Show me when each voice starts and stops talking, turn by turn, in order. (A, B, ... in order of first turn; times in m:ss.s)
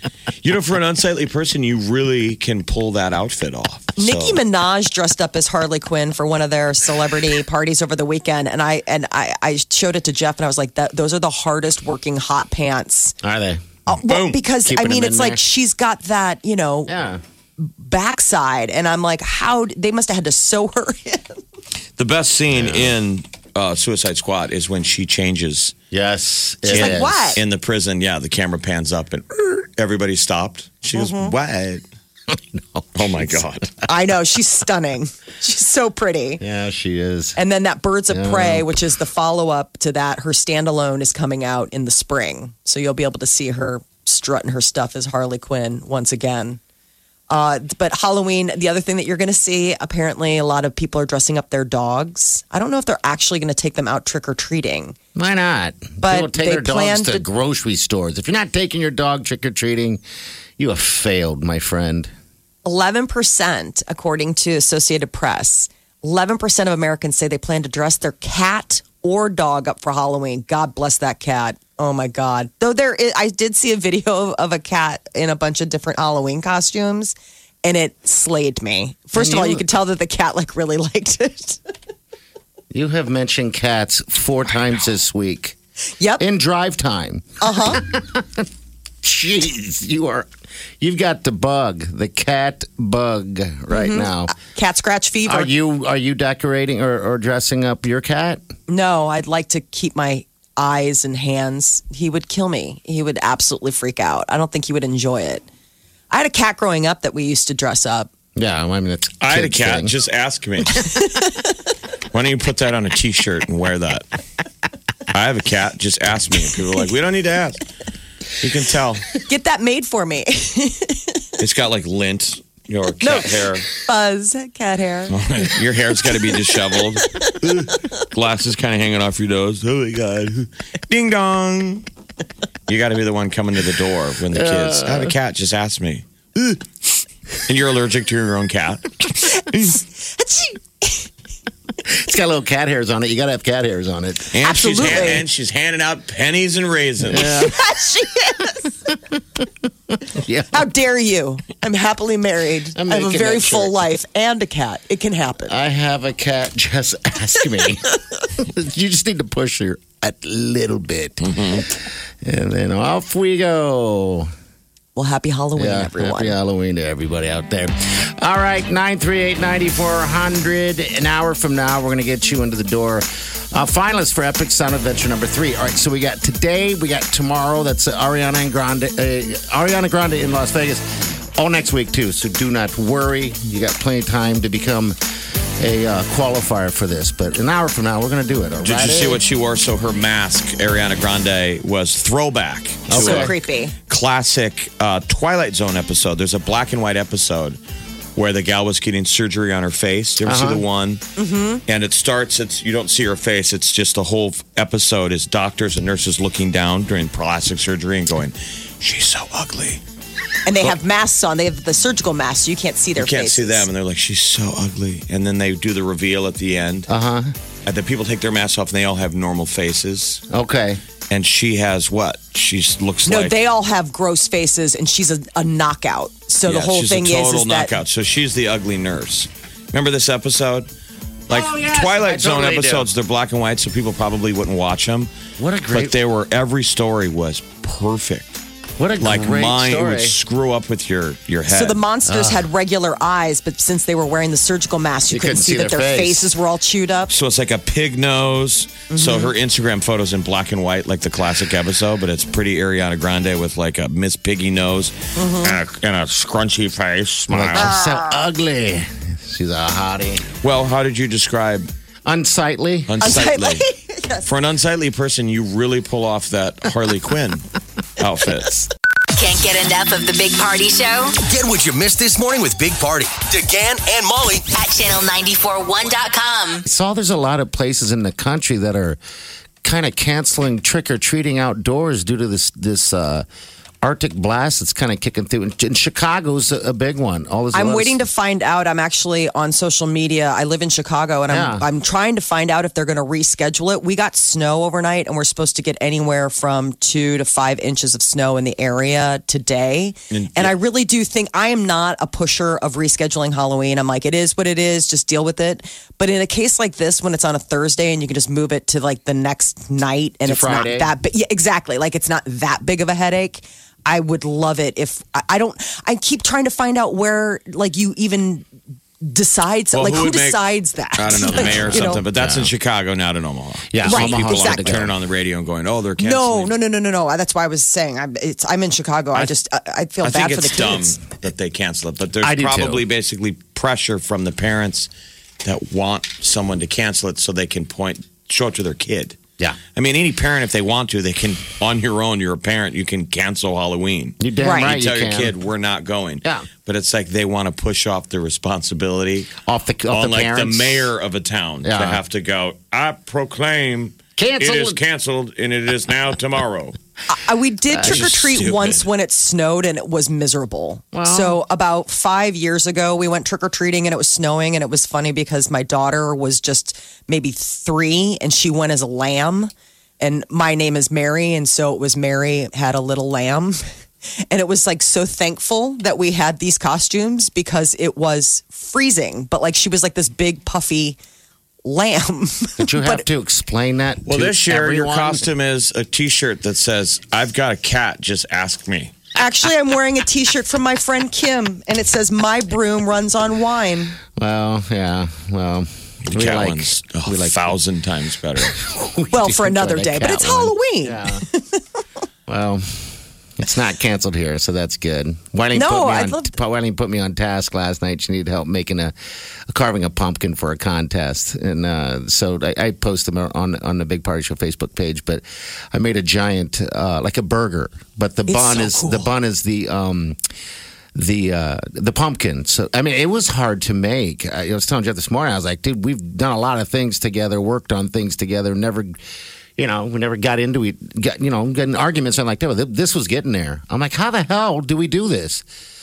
0:00.4-0:04.4 A
0:04.0-0:13.2 B
0:13.2-0:13.8 C
0:13.9-0:16.9 B
0:14.0-0:14.4 A
0:14.6-0:15.4 C
0:16.9-0:17.2 C
0:17.6-0:21.4 B
0:22.0-0:25.8 A
0:22.5-0:23.0 C
0:25.9-0:27.4 C
0:26.6-0:31.8 A
0:26.7-0:27.4 B
0:30.9-0:31.3 B
0:32.3-0:33.4 C
0:33.0-0:33.7 A
0:33.9-0:36.4 B
0:36.4-0:37.4 C
0:37.4-0:46.6 B
0:38.1-0:38.8 C
0:47.3-0:55.0 B
0:55.2-1:00.0 C
0:56.0-0:57.2 B
1:00.6-1:02.1 C
1:02.6-1:21.6 B
1:19.2-1:19.6 C
1:22.7-1:25.6 C
1:26.0-1:26.2 B
1:26.2-1:28.5 C
1:27.4-1:27.8 B
1:29.0-1:30.3 C
1:30.8-1:34.4 C
1:33.7-1:35.5 B
1:35.2-1:38.4 C
1:38.7-1:45.4 B
1:46.1-1:48.1 B
1:48.4-1:49.9 C
1:49.2-1:50.9 A
1:50.8-1:51.6 B
1:52.1-1:54.1 A
1:55.1-1:57.6 A
1:58.4-1:59.1 A
1:59.2-2:01.3 B
2:01.4-2:03.7 A
2:03.0-2:05.2 B
2:05.1-2:11.9 A
2:12.7-2:16.6 A
2:14.3-2:15.1 C
2:17.4-2:19.7 A
2:19.5-2:21.1 B
2:21.8-2:25.2 C
2:24.3-2:27.4 A
2:24.4-2:25.2 B
2:27.0-2:27.6 C
2:27.2-2:28.7 B
2:30.1-2:30.7 C
2:30.5-2:35.6 B
2:32.8-2:33.8 C
2:35.5-2:44.3 C
2:41.2-2:41.7 A
2:44.9-2:46.4 B
2:45.6-3:05.0 C
3:05.6-3:09.2 C
3:08.6-3:17.6 A
3:12.9-3:13.3 C
3:12.9-3:13.7 B
3:18.2-3:21.0 A
3:20.2-3:20.6 C
3:21.2-3:21.6 B
3:21.7-3:29.8 A
3:30.4-3:33.7 B
3:33.0-3:36.9 A
3:36.9-3:37.3 C
3:37.6-3:40.2 A
3:40.3-3:40.8 C
3:41.1-3:43.4 A
3:43.1-3:47.8 B
3:46.4-3:50.7 A
3:51.3-3:55.1 A
3:51.3-3:52.9 C
3:55.4-3:56.0 C
3:55.7-3:58.4 A
3:58.8-4:00.2 C
3:59.0-4:01.8 A
4:01.5-4:07.1 B
4:02.1-4:02.5 C
4:05.1-4:06.3 C
4:07.1-4:17.8 A
4:08.9-4:09.3 B
4:15.2-4:15.6 B
4:17.3-4:20.3 C
4:20.4-4:21.7 A
4:22.0-4:23.0 C
4:22.9-4:23.7 A
4:23.0-4:24.3 B
4:24.2-4:27.4 A
4:28.0-4:28.7 A
4:29.2-4:31.2 D
4:31.2-4:34.5 E
4:34.5-4:36.6 D
4:36.7-4:39.0 C
4:39.6-4:43.3 C
4:43.8-4:48.0 C
4:47.5-5:18.4 B
4:51.3-4:51.6 C
5:00.1-5:00.5 A
5:10.3-5:10.9 C
5:19.0-5:22.0 B
5:19.7-5:26.5 A
5:21.3-5:22.5 C
5:23.7-5:24.9 C
5:23.8-5:24.8 B
5:26.0-5:31.0 B
5:30.0-5:34.9 A
5:32.2-5:32.8 C
5:35.4-5:39.2 A
5:39.8-5:49.3 A
5:44.2-5:45.4 C
5:44.4-5:44.8 B
5:49.4-5:50.9 C
5:49.9-5:56.8 A
5:51.6-5:52.0 C
5:54.2-5:54.8 C
5:57.1-6:13.6 B
5:57.7-5:58.1 C
5:57.8-5:58.8 A
6:00.9-6:01.4 C
6:14.3-6:21.0 B
6:21.6-6:23.0 B
6:22.6-6:25.3 C
6:24.0-6:28.9 A
6:29.2-6:34.0 B
6:34.2-6:37.5 C
6:36.1-6:38.6 A
6:38.4-6:41.2 C
6:39.1-6:41.6 B
6:42.3-6:48.9 C
6:45.5-6:46.3 B
6:49.5-7:00.2 C
6:58.3-6:59.1 B
7:00.9-7:09.0 C
7:09.6-7:15.4 C